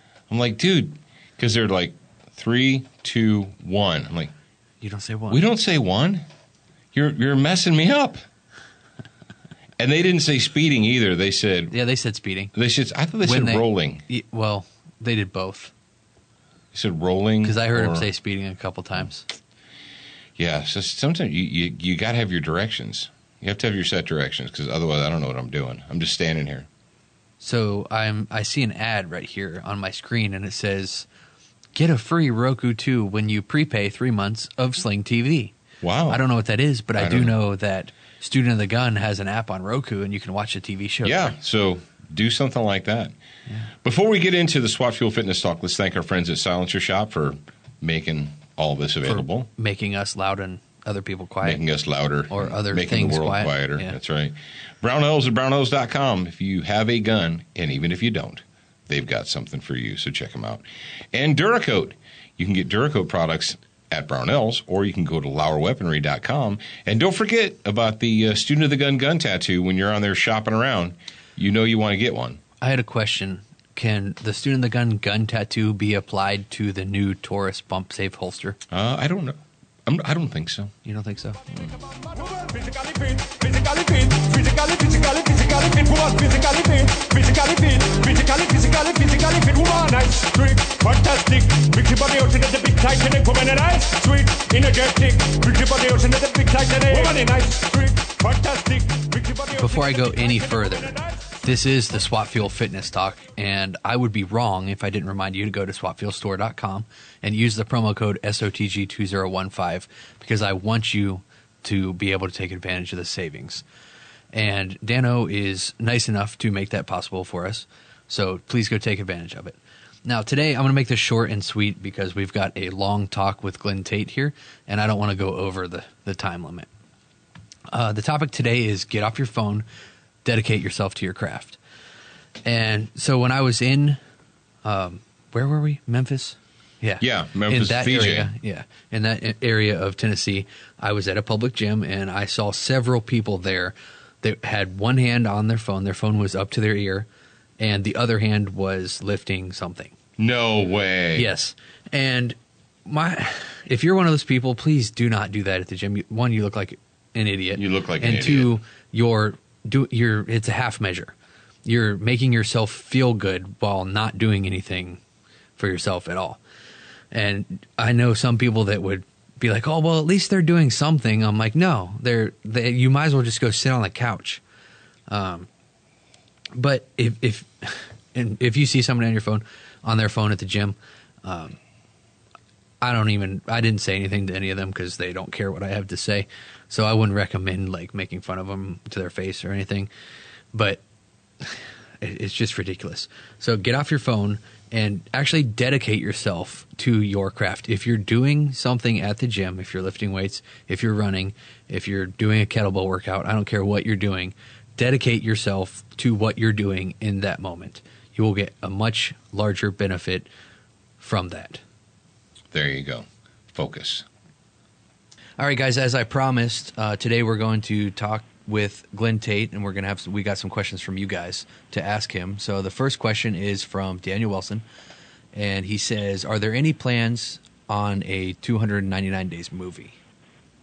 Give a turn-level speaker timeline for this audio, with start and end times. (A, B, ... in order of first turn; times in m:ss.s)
0:00.3-0:04.3 A
0:04.8-0:05.4 B
0:05.3-0:06.2 A
0:06.9-0:08.2 A
0:09.8-0:11.8 A
0:11.7-0:12.5 B
0:12.5-0:14.0 A
0:13.2-0:15.7 B
0:16.7-0:18.1 A
0:17.4-0:19.3 B
0:20.4-0:26.7 A
0:27.4-0:31.1 B
0:31.8-0:35.6 B
0:35.8-0:36.2 A
0:36.1-0:41.3 B
0:37.0-0:37.3 A
0:41.0-0:43.1 A
0:43.5-0:43.7 B
0:43.8-0:49.5 A
0:49.0-0:51.6 B
0:51.4-1:12.4 A
0:52.3-0:54.0 B
1:12.6-1:18.6 B
1:18.7-1:20.7 A
1:20.8-1:21.4 B
1:21.5-1:21.8 A
1:21.9-1:41.2 C
1:39.5-1:53.6 B
1:54.3-2:06.7 B
2:07.7-2:09.6 B
2:10.2-2:11.6 B
2:12.4-2:14.0 B
2:14.6-2:27.1 B
2:17.0-2:18.3 A
2:27.6-2:30.0 B
2:30.2-2:31.3 A
2:31.2-2:41.1 B
2:37.6-2:38.5 A
2:41.6-2:45.0 B
2:45.6-2:46.4 B
2:47.1-2:54.4 B
2:55.1-2:55.5 B
2:56.5-3:01.6 B
3:02.8-3:09.9 B
3:10.5-3:10.8 B
3:11.4-3:30.3 B
3:31.0-3:31.6 B
3:32.5-3:34.1 A
3:35.4-3:44.7 B
3:45.3-3:50.0 B